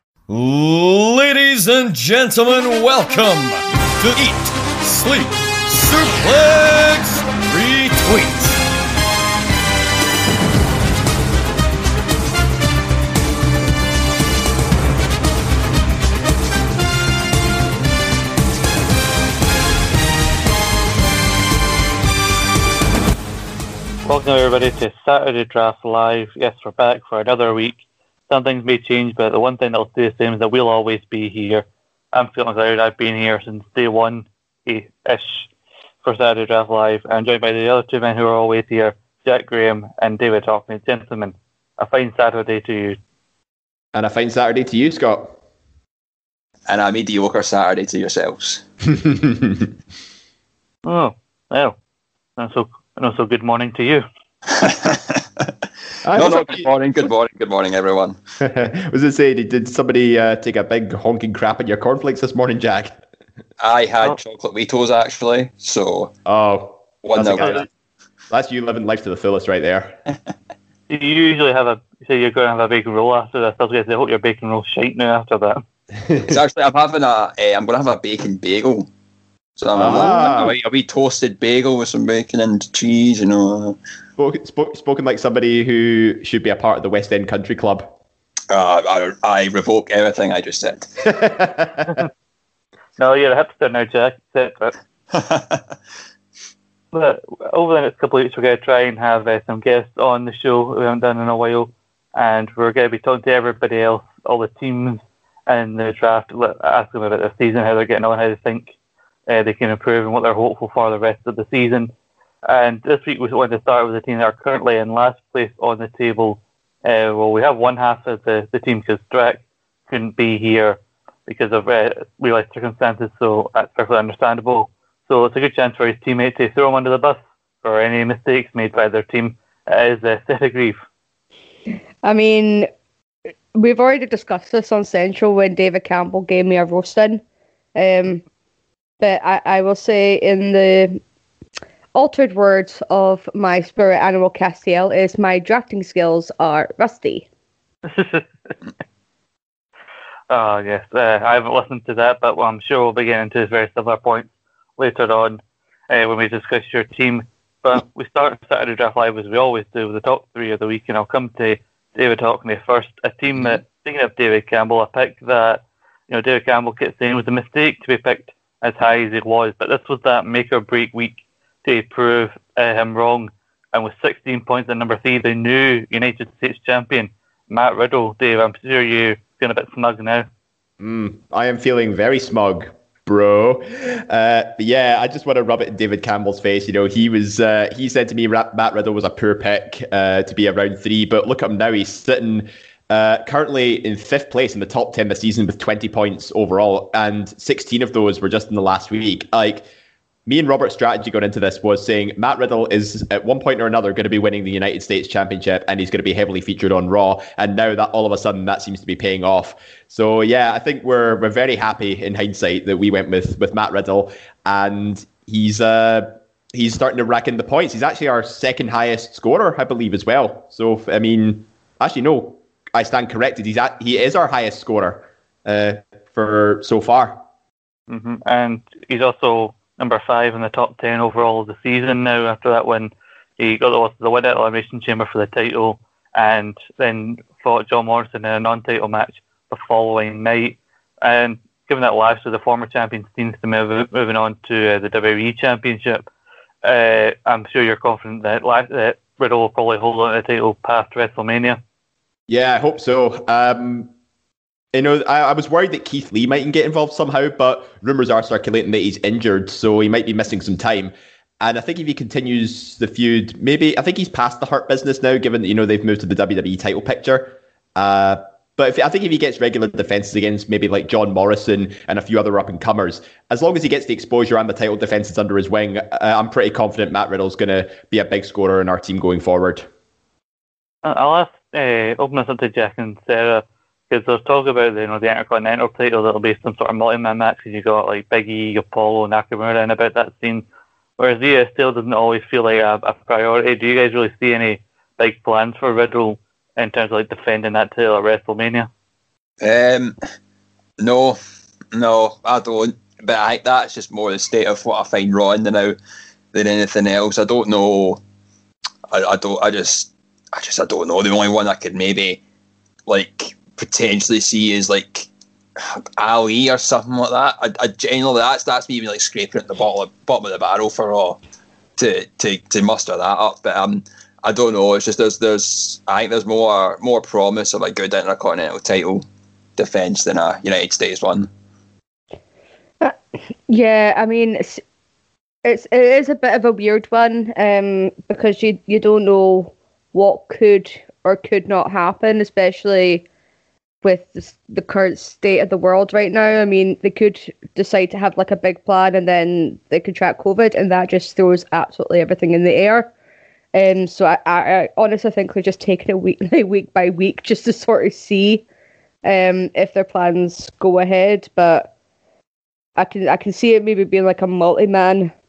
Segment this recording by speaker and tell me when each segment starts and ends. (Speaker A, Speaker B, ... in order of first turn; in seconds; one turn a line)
Speaker A: 0.3-8.6
Speaker B: 24.1-35.5
Speaker B: 36.0-43.0
Speaker C: 43.9-45.4
Speaker D: 46.7-48.6
Speaker C: 48.9-49.7
Speaker B: 50.9-51.8
Speaker B: 52.4-54.1
Speaker D: 54.5-55.5
Speaker C: 56.0-56.7
Speaker D: 56.1-58.2
Speaker C: 58.4-63.0
Speaker D: 63.6-66.1
Speaker C: 66.3-67.7
Speaker D: 67.0-67.6
Speaker C: 68.3-70.0
Speaker B: 70.9-75.6
Speaker D: 76.2-78.9
Speaker D: 79.6-83.8
Speaker C: 79.8-80.5
Speaker C: 84.2-87.9
Speaker D: 88.5-91.1
Speaker C: 91.0-92.0
Speaker B: 93.0-94.8
Speaker D: 95.1-95.6
Speaker B: 96.9-108.7
Speaker B: 109.3-111.9
Speaker B: 112.5-130.8
Speaker E: 132.0-132.7
Speaker E: 133.5-137.2
Speaker E: 137.8-138.2
Speaker E: 139.0-141.0
Speaker E: 141.9-147.3
Speaker B: 147.8-148.5
Speaker B: 150.3-180.3
Speaker C: 180.8-199.7
Speaker C: 200.3-227.2
Speaker B: 227.9-246.1
Speaker B: 246.6-251.6
Speaker C: 252.3-253.9
Speaker C: 254.7-279.7
Speaker B: 280.8-290.4
Speaker B: 291.0-298.7
Speaker D: 299.4-300.0
Speaker D: 300.8-301.2
Speaker D: 301.7-305.8
Speaker D: 306.3-308.0
Speaker D: 308.9-312.2
Speaker D: 312.9-321.2
Speaker D: 321.8-329.1
Speaker D: 329.6-331.3
Speaker E: 333.5-334.6
Speaker E: 335.4-343.1
Speaker E: 343.8-352.9
Speaker E: 353.5-358.4
Speaker E: 359.0-361.7
Speaker E: 362.8-365.1